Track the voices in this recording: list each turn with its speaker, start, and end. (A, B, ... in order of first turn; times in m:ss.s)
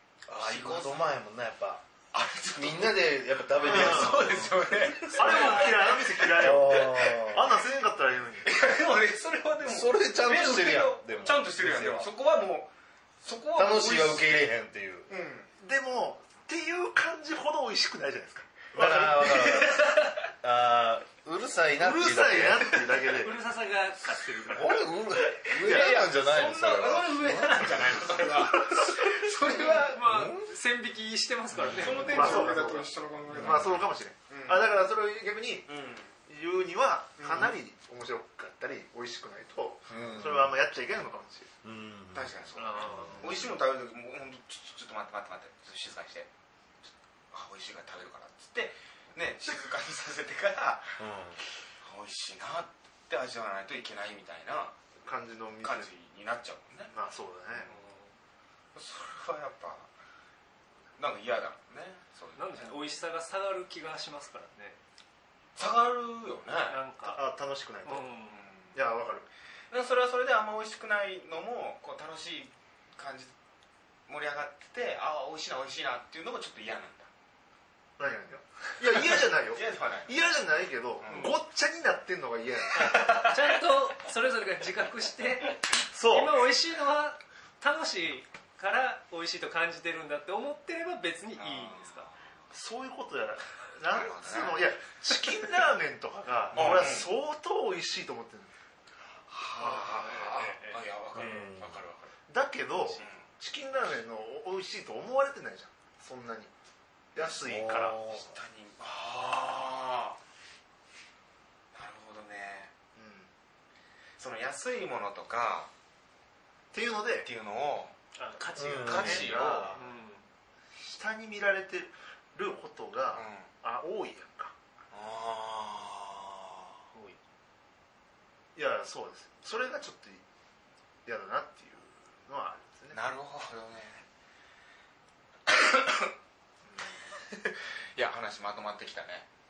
0:00.3-0:01.8 A
0:00.3-0:01.0 B
0:02.1-0:07.2 B
0:02.5-0:05.2 A
0:03.6-0:04.2 C
0:05.2-0:05.8 D
0:05.2-0:08.5 C
0:06.3-0:07.5 A
0:08.4-0:12.7 B
0:09.6-0:12.1 A
0:13.2-0:14.4 B
0:13.5-0:15.1 A
0:15.1-0:15.5 B
0:15.6-0:19.7 C
0:18.7-0:22.9 A
0:19.2-0:20.2 B
0:21.8-0:23.4 C
0:23.1-0:24.9 D
0:24.5-0:28.9 A
0:25.2-0:30.3 B
0:29.7-0:30.4 A
0:29.8-0:32.6 D
0:31.5-0:32.4 A
0:31.8-0:34.7 B
0:32.1-0:35.7 C
0:33.3-0:33.8 A
0:35.7-0:36.1 B
0:36.3-0:41.5 C
0:37.2-0:37.5 B
0:39.9-0:40.6 A
0:41.6-0:43.3 A
0:42.1-0:46.3 B
0:42.6-0:43.2 D
0:43.1-0:43.6 C
0:46.8-0:51.0 B
0:51.0-0:51.4 A
0:51.8-0:54.7 B
0:55.0-0:55.9 C
0:55.6-0:56.9 B
0:56.9-0:57.7 C
0:57.6-0:58.1 D
0:58.7-0:59.9 B
1:01.0-1:02.8 B
1:02.4-1:04.8 D
1:05.6-1:06.8 B
1:06.6-1:07.2 D
1:07.0-1:08.1 C
1:07.8-1:08.4 D
1:08.3-1:08.8 B
1:08.7-1:09.3 C
1:09.7-1:13.3 B
1:14.1-1:17.1 B
1:18.0-1:23.2 C
1:18.9-1:20.2 B
1:21.0-1:21.4 B
1:21.1-1:21.4 D
1:22.8-1:23.4 B
1:22.8-1:32.1 D
1:25.9-1:26.4 C
1:31.4-1:32.3 B
1:32.5-1:38.5 C
1:33.9-1:34.7 B
1:36.5-1:37.1 B
1:39.3-1:42.1 B
1:39.6-1:41.5 D
1:39.6-1:40.2 C
1:41.1-1:41.8 A
1:42.3-1:46.5 C
1:42.8-1:43.0 D
1:42.9-1:43.3 B
1:47.1-1:48.0 C
1:47.2-1:47.4 B
1:47.4-1:48.3 A
1:48.0-1:50.2 B
1:51.7-1:52.7 B
1:53.0-1:53.3 C
1:54.2-1:55.7 B
1:56.7-1:57.3 C
1:57.2-1:57.9 B
1:58.2-2:00.2 D
1:58.6-1:59.4 A
1:58.8-1:59.8 B
1:59.0-1:59.8 C
2:00.8-2:04.5 C
2:03.1-2:03.5 B
2:04.9-2:06.7 B
2:08.6-2:10.2 C
2:11.0-2:13.0 C
2:12.9-2:14.0 B
2:15.5-2:16.1 B
2:16.7-2:17.1 C
2:17.2-2:19.3 B